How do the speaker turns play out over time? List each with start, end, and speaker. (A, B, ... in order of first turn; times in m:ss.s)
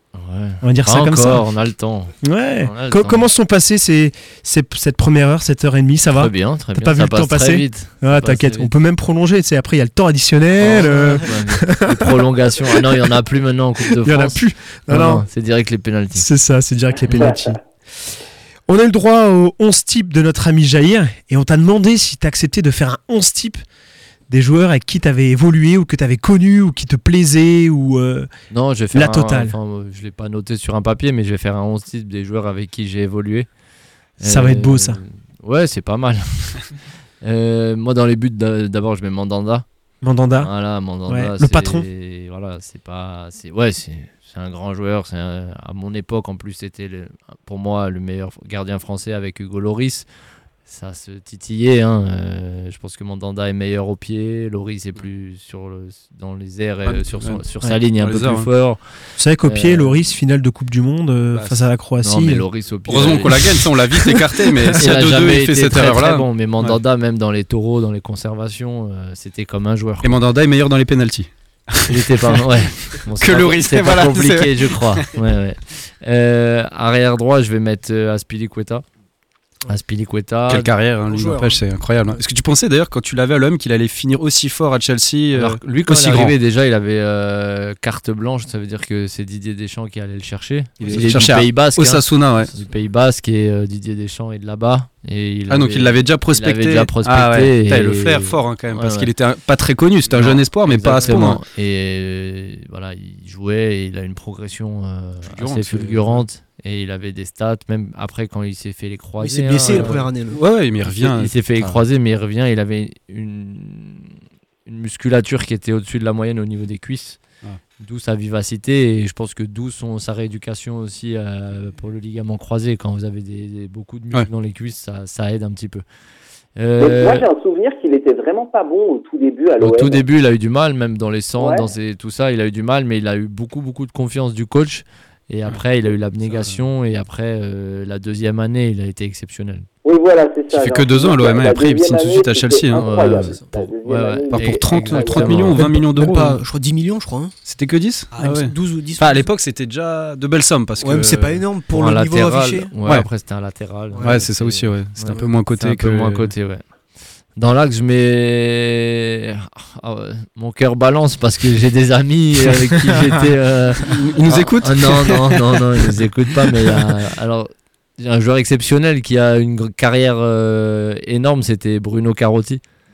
0:00.1-0:03.3 A
0:00.6-0:01.4 B
0:02.2-0:13.0 B
0:06.1-0:08.7 A
0:10.6-0:16.3 A
0:13.8-0:15.2 B
0:16.1-0:17.6 B
0:18.7-0:23.6 B
0:24.3-0:28.3 B
0:28.5-0:33.5 A
0:28.9-0:29.6 B
0:34.2-0:36.6 A
0:34.2-0:35.0 B
0:37.2-0:39.6 A
0:40.0-0:40.5 B
0:40.4-0:50.0 A
0:41.1-0:41.8 B
0:50.6-0:58.8 A
0:56.8-0:57.4 C
0:58.0-0:58.5 C
0:59.2-1:02.4 B
0:59.4-0:59.9 A
1:02.0-1:03.6 A
1:02.9-1:06.8 C
1:04.7-1:10.2 A
1:10.0-1:12.4 C
1:11.9-1:18.8 A
1:13.2-1:15.1 C
1:19.7-1:20.7 A
1:20.5-1:26.3 C
1:21.1-1:22.2 D
1:25.3-1:39.1 A
1:30.8-1:32.5 C
1:35.5-1:41.4 C
1:40.2-1:50.0 A
1:45.2-1:46.2 C
1:49.2-1:50.4 D
1:49.7-1:51.8 C
1:50.8-1:54.1 A
1:54.6-1:57.2 A
1:57.8-2:05.8 A
2:06.6-2:07.3 A
2:06.8-2:10.0 E
2:09.6-2:19.7 A
2:11.4-2:11.7 E
2:16.3-2:16.6 C
2:19.8-2:25.4 E
2:20.5-2:22.8 C
2:22.7-2:25.7 A
2:24.3-2:26.4 C
2:25.6-2:27.3 D
2:27.4-2:31.4 C
2:28.1-2:29.3 D
2:30.8-2:32.7 D
2:31.7-2:36.6 A
2:33.9-2:34.2 D
2:34.0-2:36.3 C
2:37.4-2:52.6 A
2:43.8-2:46.0 C